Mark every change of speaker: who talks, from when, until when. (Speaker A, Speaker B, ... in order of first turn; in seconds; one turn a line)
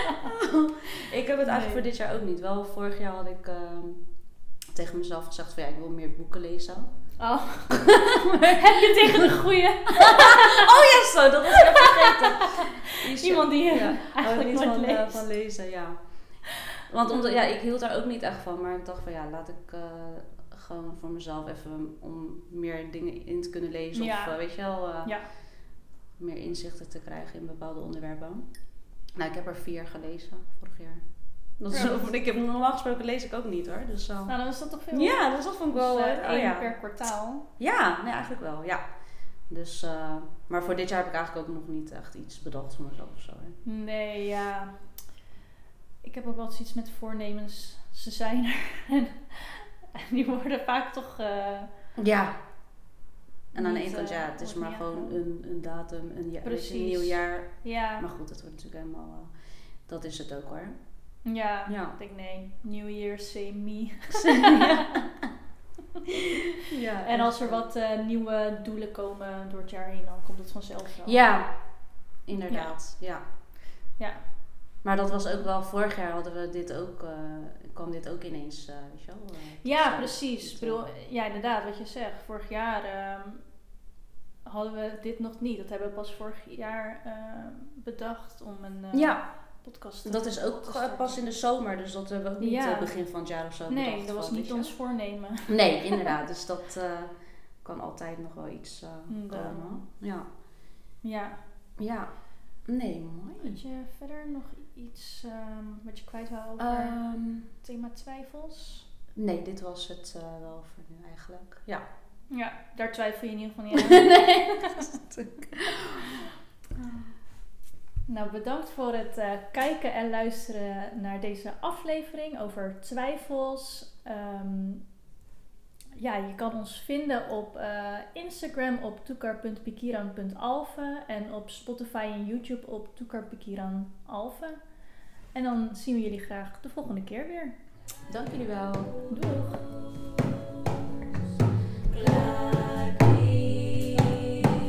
Speaker A: 0.5-7.4
Speaker B: 1.4-1.8
Speaker B: 7.2-10.7
Speaker A: 8.4-9.3
Speaker A: 10.6-43.6
Speaker B: 13.2-15.3
Speaker B: 17.1-17.5
Speaker B: 23.9-25.3
Speaker B: 31.7-32.1
Speaker B: 34.3-37.5
Speaker B: 43.6-45.2
Speaker B: 46.0-51.8
Speaker A: 52.0-52.9
Speaker A: 53.5-62.0
Speaker B: 53.5-55.2
Speaker B: 56.4-58.1
Speaker B: 61.2-64.6
Speaker A: 64.3-65.0
Speaker A: 66.7-67.7
Speaker B: 67.0-71.3
Speaker A: 71.0-73.2
Speaker B: 72.5-73.3
Speaker B: 74.0-74.4
Speaker A: 74.8-80.9
Speaker B: 79.6-83.8
Speaker B: 84.5-91.2
Speaker A: 88.9-100.3
Speaker B: 92.4-96.1
Speaker B: 99.1-99.8
Speaker B: 101.0-101.4
Speaker A: 101.8-103.6
Speaker B: 103.4-108.9
Speaker A: 106.6-107.5
Speaker A: 109.2-111.8
Speaker B: 112.3-114.6
Speaker A: 114.0-116.0
Speaker B: 118.1-125.0
Speaker B: 126.0-137.7
Speaker A: 138.1-139.1
Speaker B: 139.1-139.7
Speaker A: 141.9-144.3